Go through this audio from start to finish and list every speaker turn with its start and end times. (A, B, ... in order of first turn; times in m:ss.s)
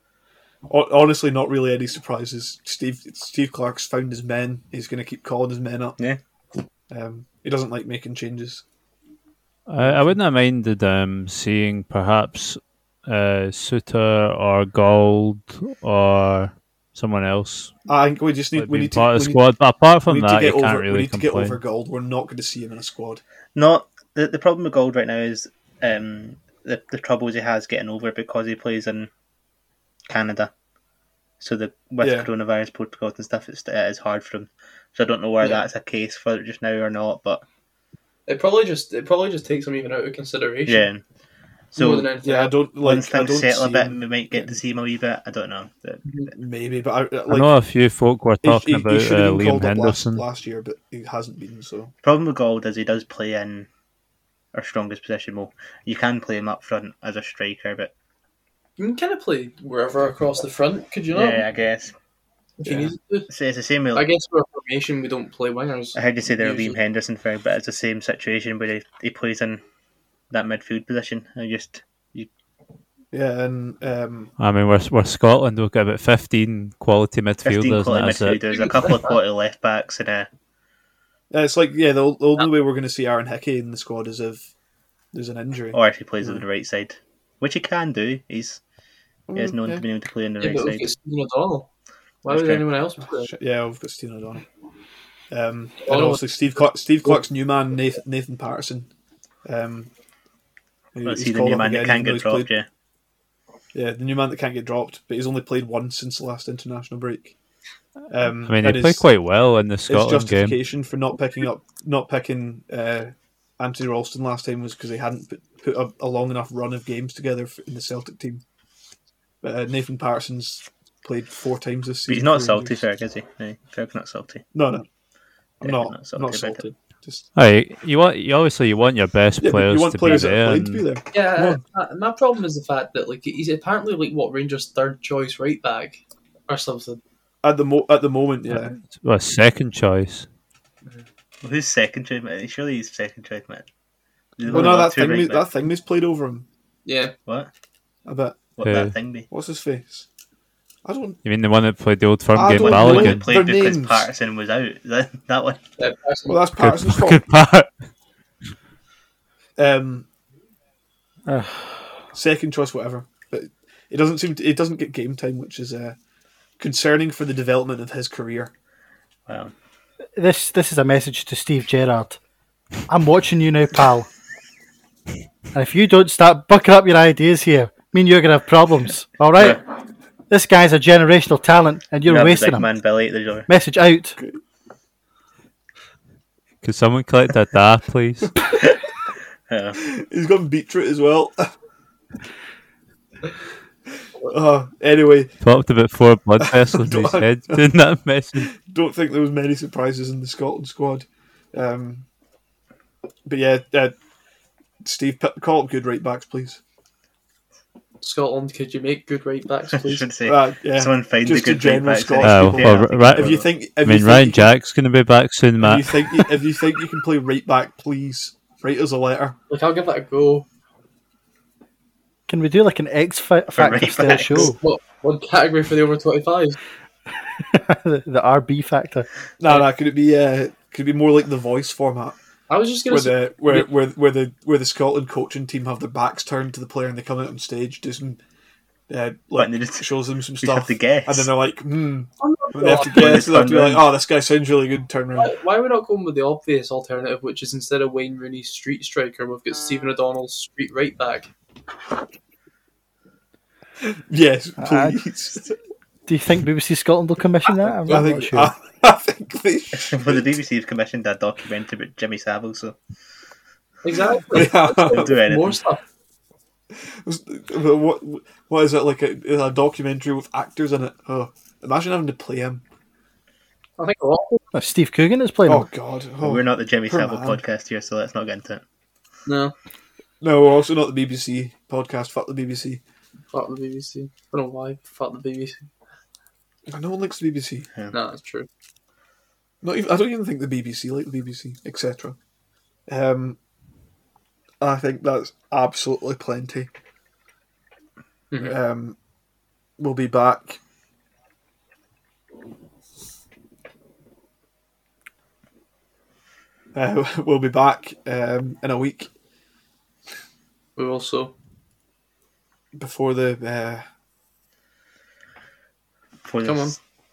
0:00.7-0:06.0 A
0:06.9-0:08.6 A
0:09.7-0:17.7 B
0:09.8-0:10.2 A
0:17.9-0:19.4 A
0:18.6-0:21.6 B
0:20.1-0:23.2 A
0:23.6-0:29.1 C
0:30.1-0:30.5 C
0:31.4-0:37.4 C
0:32.0-0:32.3 A
0:38.3-0:40.9 D
0:40.7-0:41.0 C
0:41.7-0:42.1 C
0:41.8-0:42.5 D
0:42.2-0:44.5 A
0:42.8-0:46.0 C
0:46.3-0:47.5 A
0:47.3-0:50.2 B
0:48.4-0:51.9 A
0:52.0-0:53.7 C
0:54.5-0:57.9 C
0:58.8-1:01.4 D
1:01.1-1:01.9 C
1:02.6-1:03.3 D
1:02.7-1:04.1 C
1:03.9-1:06.8 D
1:06.0-1:09.6 C
1:10.3-1:12.3 C
1:13.1-1:14.3 A
1:14.4-1:18.4 B
1:17.4-1:20.3 C
1:18.5-1:19.1 D
1:21.3-1:24.5 A
1:25.1-1:26.4 A
1:25.7-1:28.6 C
1:29.3-1:29.8 A
1:29.3-1:30.9 C
1:30.4-1:31.7 D
1:32.2-1:33.3 D
1:32.3-1:32.6 C
1:33.0-1:34.5 A
1:35.3-1:38.9 A
1:35.8-1:36.2 D
1:39.4-1:39.9 A
1:40.9-1:42.5 A
1:41.0-1:42.7 C
1:43.7-1:47.3 A
1:48.1-1:49.1 A
1:48.4-1:50.6 B
1:49.9-1:58.4 A
1:59.4-2:02.8 A
2:02.1-2:04.4 C
2:04.5-2:04.9 A
2:05.6-2:07.3 A
2:05.6-2:06.6 C
2:07.4-2:10.8 B
2:09.4-2:11.6 A
2:11.1-2:17.0 D
2:17.4-2:18.8 A
2:18.5-2:20.3 B
2:21.4-2:23.6 C
2:24.4-2:25.4 C
2:24.4-2:26.5 A
2:26.9-2:27.1 D
2:28.0-2:28.4 A
2:28.6-2:29.3 C
2:28.6-2:28.9 B
2:29.3-2:30.1 A
2:30.8-2:31.2 A
2:31.2-2:33.3 B
2:32.3-2:34.1 A
2:32.5-2:35.6 C
2:35.8-2:36.5 D
2:36.3-2:37.3 A
2:36.6-2:37.7 B
2:39.6-2:40.1 A
2:41.3-2:42.0 E
2:42.1-2:46.0 A
2:46.6-2:48.5 A
2:49.3-2:49.5 C
2:50.2-2:52.2 E
2:52.9-2:54.1 E
2:55.5-2:59.6 E
3:00.3-3:02.7 E
3:02.1-3:03.5 C
3:03.5-3:04.2 E
3:06.6-3:08.4 B
3:09.5-3:09.8 C
3:09.8-3:11.5 A
3:14.3-3:15.4 A
3:15.4-3:18.5 B
3:16.4-3:17.7 A
3:18.4-3:22.1 A
3:23.2-3:24.0 A
3:24.8-3:26.6 A
3:28.0-3:30.1 D
3:29.7-3:33.5 C
3:30.2-3:34.5 A
3:32.2-3:36.3 B
3:35.6-3:39.4 A
3:39.5-3:40.5 D
3:42.3-3:44.6 E
3:43.5-3:44.6 C
3:44.3-3:46.6 D
3:47.5-3:49.1 E
3:49.4-3:52.2 A
3:52.5-3:53.7 D
3:52.9-3:58.2 A
3:58.9-4:05.3 A
3:59.4-4:01.3 C
4:02.2-4:03.3 D
4:02.8-4:03.8 C
4:05.2-4:11.3 D
4:13.8-4:15.6 A
4:14.6-4:15.0 E
4:16.1-4:18.5 E
4:17.6-4:18.1 D
4:17.9-4:20.3 A
4:19.8-4:22.8 C
4:23.8-4:25.8 D
4:24.3-4:25.1 A
4:24.9-4:25.6 C
4:26.8-4:32.6 A
4:33.8-4:34.4 D
4:34.5-4:35.7 E
4:35.5-4:37.4 A
4:36.2-4:38.6 C
4:39.3-4:39.5 D
4:40.2-4:42.8 A
4:43.3-4:45.7 D
4:46.7-4:47.7 A
4:47.9-4:48.5 D
4:49.6-4:52.2 A
4:52.9-4:53.4 A
4:54.6-4:56.7 A
4:58.4-4:59.0 A
4:59.8-5:00.6 A
5:06.7-5:09.1 A
5:10.8-5:11.3 D
5:12.7-5:13.9 A
5:16.2-5:16.8 C
5:16.4-5:16.8 D